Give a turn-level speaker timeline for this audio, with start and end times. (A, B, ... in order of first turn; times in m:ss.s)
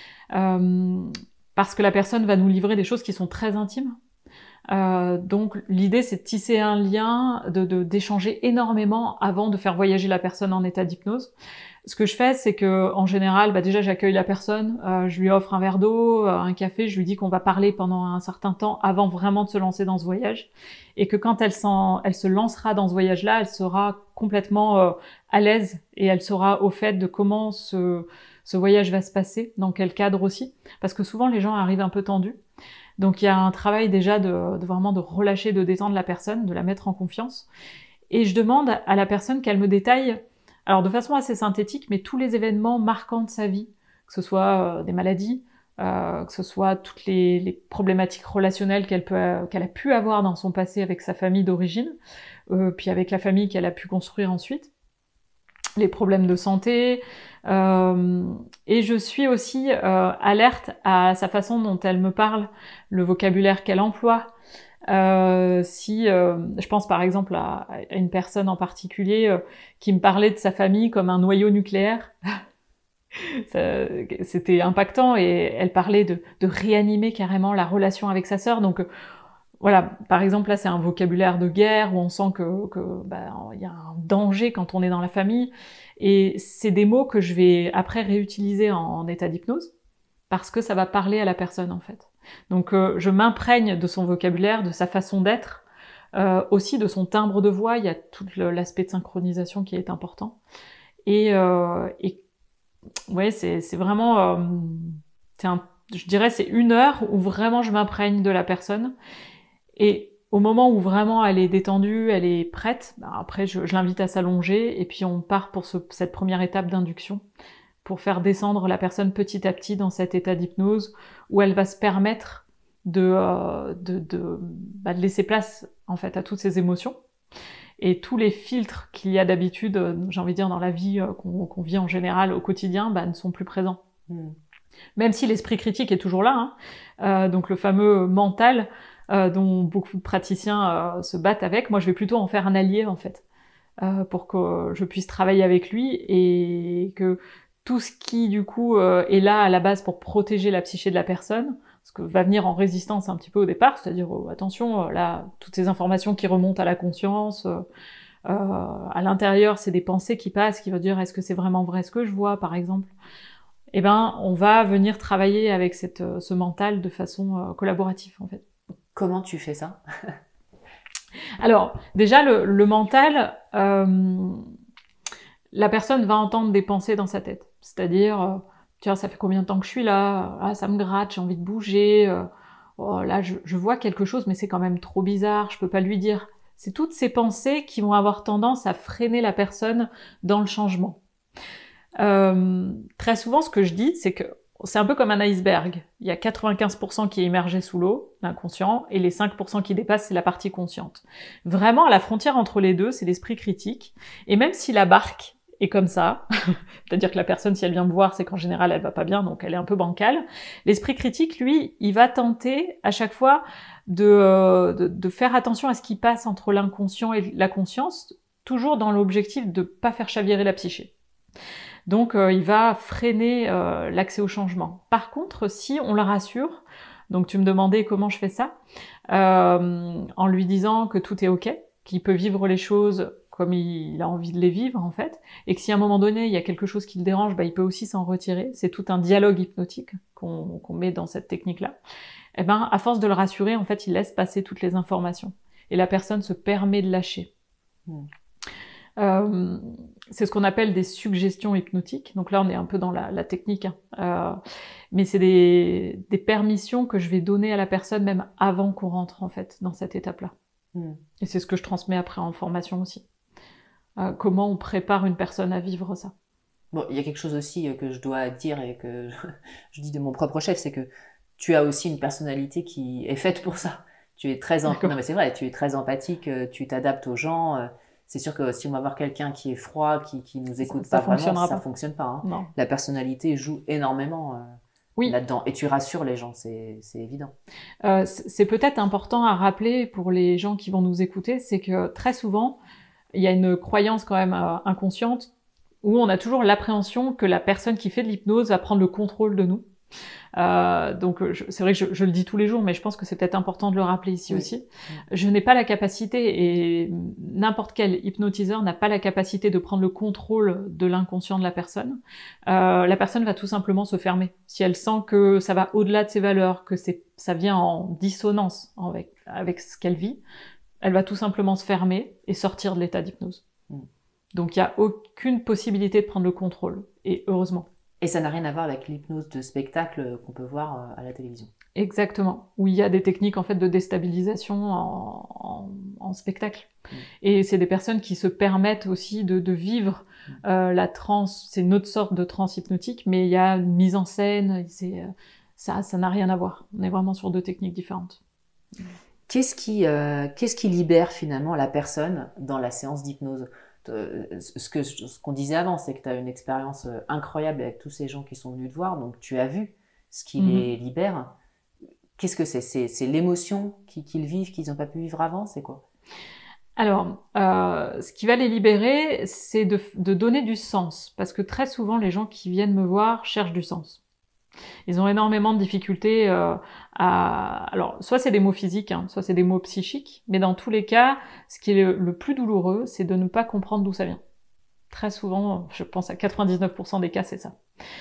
0:00.3-0:04.0 A
0:04.7-0:11.3 A
0:11.8-0:32.4 A
0:33.0-0:37.5 A
0:38.1-0:51.9 A
0:52.5-0:54.7 A
0:55.8-1:04.3 A
1:04.9-1:12.1 A
1:13.2-1:18.8 A
1:19.6-1:29.7 A
1:30.3-1:35.6 A
1:36.1-1:40.4 A
1:41.0-1:42.2 A
1:43.1-1:48.9 A
1:49.8-1:57.2 A
1:57.8-2:07.0 A
2:07.8-2:13.8 A
2:14.1-2:14.4 B
2:15.0-2:23.2 A
2:23.8-2:37.6 A
2:38.2-2:42.9 A
2:43.7-2:48.4 A
2:48.9-2:50.2 B
2:51.4-2:54.4 A
2:55.5-3:02.3 A
3:02.8-3:11.0 A
3:12.0-3:40.9 A
3:41.9-3:48.5 A
3:49.1-4:01.8 A
4:02.4-4:07.3 A
4:09.0-4:14.4 A
4:14.9-4:20.3 A
4:20.7-4:21.0 B
4:21.2-4:23.0 A
4:24.0-4:26.1 A
4:26.7-4:47.3 B
4:34.7-4:34.9 A
4:40.6-4:41.6 A
4:42.2-4:42.5 A
4:47.8-4:52.6 A
4:53.1-4:55.3 A
4:55.8-4:59.6 A
5:00.4-5:20.2 A
5:04.3-5:05.0 B
5:20.8-5:23.4 A
5:24.3-5:27.7 A
5:28.0-5:31.5 B
5:31.8-5:36.7 A
5:37.2-5:48.2 A
5:49.3-6:01.3 B
6:00.4-6:00.7 A
6:02.2-6:05.8 B
6:06.8-6:14.0 A
6:14.9-6:24.2 A
6:24.9-6:27.6 A